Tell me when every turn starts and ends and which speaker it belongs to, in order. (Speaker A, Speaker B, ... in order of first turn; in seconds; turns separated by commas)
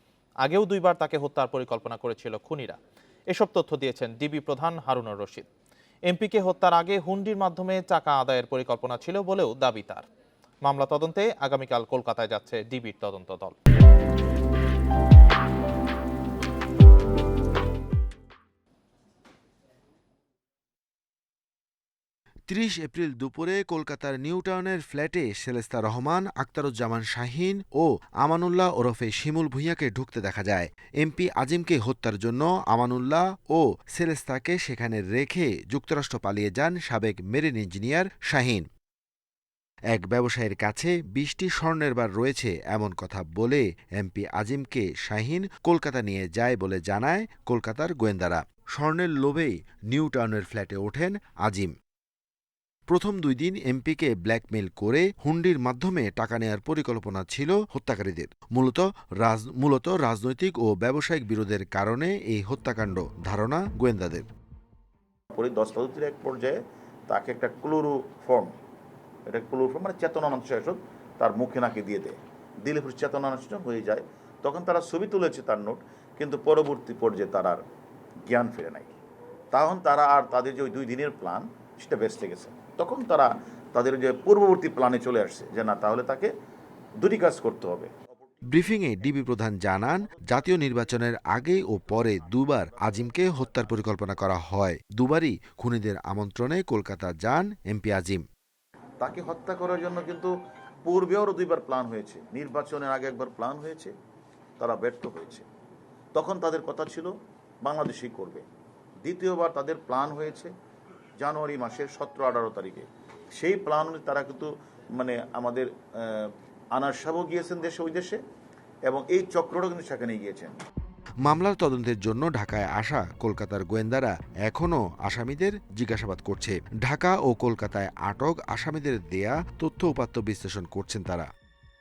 Speaker A: 0.4-2.8, Speaker A: 3.3-5.5, Speaker A: 6.1-10.0, Speaker A: 10.6-13.6, Speaker B: 22.5-38.7, Speaker B: 39.9-51.7, Speaker B: 52.9-64.3, Speaker C: 65.3-66.5, Speaker C: 67.1-68.5, Speaker C: 69.3-77.6, Speaker C: 78.3-78.9, Speaker C: 79.5-86.3, Speaker C: 87.0-94.1, Speaker B: 88.5-98.2, Speaker C: 99.0-100.3, Speaker C: 100.8-103.9, Speaker C: 104.6-105.5, Speaker C: 106.1-107.1, Speaker C: 107.6-108.4, Speaker C: 109.0-110.5, Speaker C: 111.2-112.8, Speaker C: 113.4-118.2, Speaker C: 118.9-120.6, Speaker B: 121.2-131.3